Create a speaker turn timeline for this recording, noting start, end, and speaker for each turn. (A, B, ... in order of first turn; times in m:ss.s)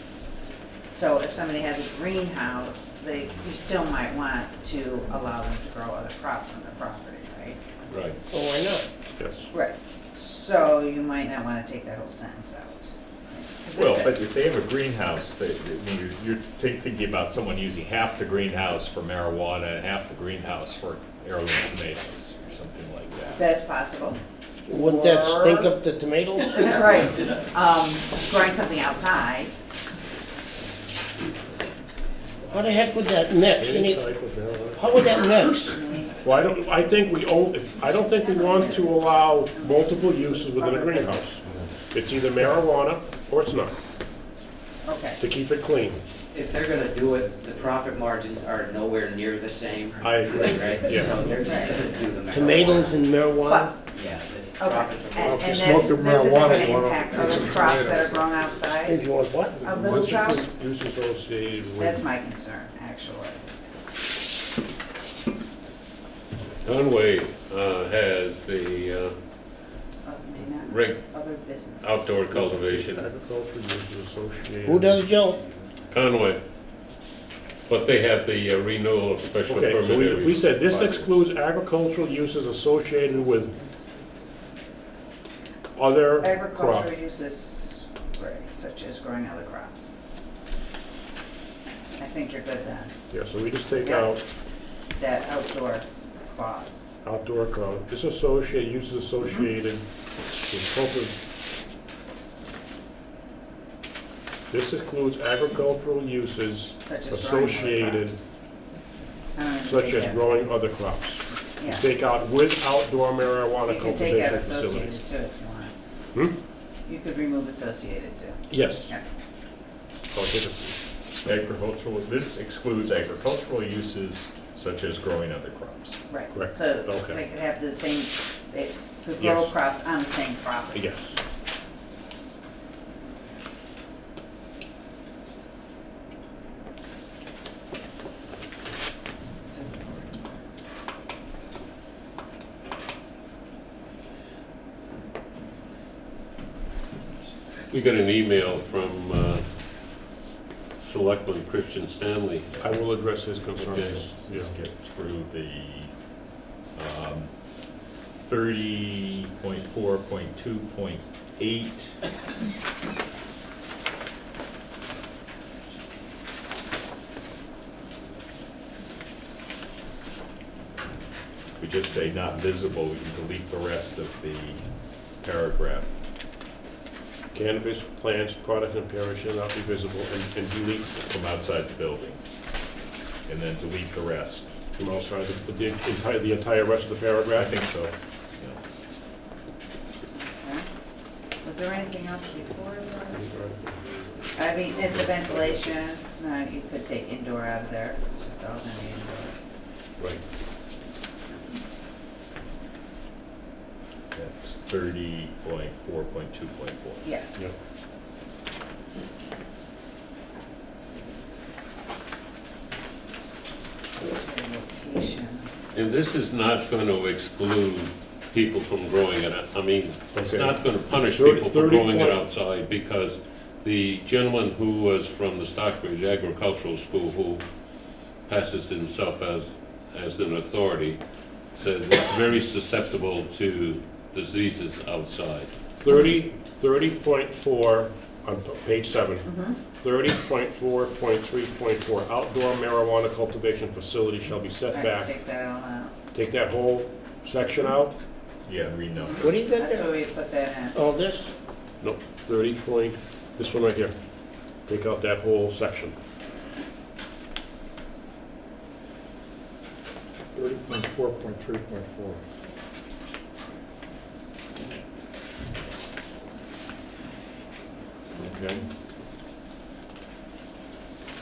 0:00.9-0:07.6 A
0:07.9-0:08.2 B
0:08.3-0:08.9 C
0:09.2-0:09.5 D
0:09.5-0:14.1 A
0:13.8-0:23.4 E
0:23.4-0:24.2 A
0:24.7-0:26.8 C
0:24.8-0:25.7 A
0:26.5-0:29.6 A
0:32.4-0:34.1 C
0:33.6-0:34.8 D
0:34.7-0:35.8 C
0:35.7-0:36.2 A
0:36.2-0:43.8 D
0:38.1-0:41.6 A
0:44.8-0:45.2 A
0:45.2-0:46.0 D
0:46.3-0:52.9 F
0:50.0-0:51.2 D
0:51.3-0:52.0 A
0:52.3-0:53.9 C
0:53.5-0:53.8 A
0:53.9-0:55.7 F
0:54.4-0:59.0 A
0:55.2-0:58.7 G
0:58.8-0:59.6 C
0:59.6-1:00.5 A
0:59.6-1:00.0 G
0:59.8-1:02.0 D
1:01.8-1:03.4 A
1:06.6-1:09.2 B
1:10.0-1:12.3 A
1:10.6-1:13.0 B
1:12.3-1:15.0 D
1:14.6-1:15.4 C
1:15.9-1:16.4 B
1:17.7-1:21.1 B
1:19.5-1:23.6 D
1:25.8-1:26.9 D
1:26.2-1:29.9 A
1:32.0-1:32.9 A
1:33.1-1:34.2 D
1:33.8-1:34.1 A
1:35.0-1:36.9 A
1:37.0-1:39.8 D
1:40.4-1:41.1 D
1:44.5-1:48.2 D
1:46.8-1:48.2 A
1:49.4-1:50.3 A
1:49.6-1:55.0 D
1:51.6-1:51.9 A
1:53.7-1:55.7 A
1:56.9-1:59.0 A
1:58.5-1:58.9 D
2:00.1-2:00.8 D
2:01.2-2:06.0 E
2:06.1-2:10.9 A
2:06.3-2:07.2 D
2:09.2-2:09.6 D
2:10.7-2:11.2 D
2:19.5-2:20.4 A
2:27.7-2:29.4 B
2:30.8-2:32.5 B
2:32.6-2:34.5 D
2:33.6-2:35.9 E
2:33.6-2:34.1 B
2:36.8-2:37.4 E
2:38.2-2:42.0 E
2:51.6-2:54.7 E
2:55.2-2:55.9 E
2:57.3-3:01.0 D
3:01.1-3:02.2 E
3:03.3-3:04.7 E
3:04.8-3:07.5 D
3:07.3-3:08.6 E
3:10.1-3:10.7 A
3:11.4-3:13.2 A
3:13.1-3:14.0 D
3:14.4-3:19.4 A
3:24.1-3:27.0 E
3:27.0-3:27.5 A
3:34.0-3:35.5 A
3:35.7-3:47.4 B
3:40.2-3:42.2 D
3:48.3-3:51.0 B
3:51.6-3:55.5 B
3:55.8-4:05.1 D
3:59.2-3:59.6 A
4:04.7-4:05.9 A
4:06.1-4:08.0 D
4:08.4-4:09.3 E
4:09.0-4:10.8 A
4:09.2-4:09.9 C
4:10.7-4:11.3 C
4:11.8-4:13.9 D
4:14.7-4:15.9 D
4:20.4-4:22.2 G
4:28.2-4:28.6 D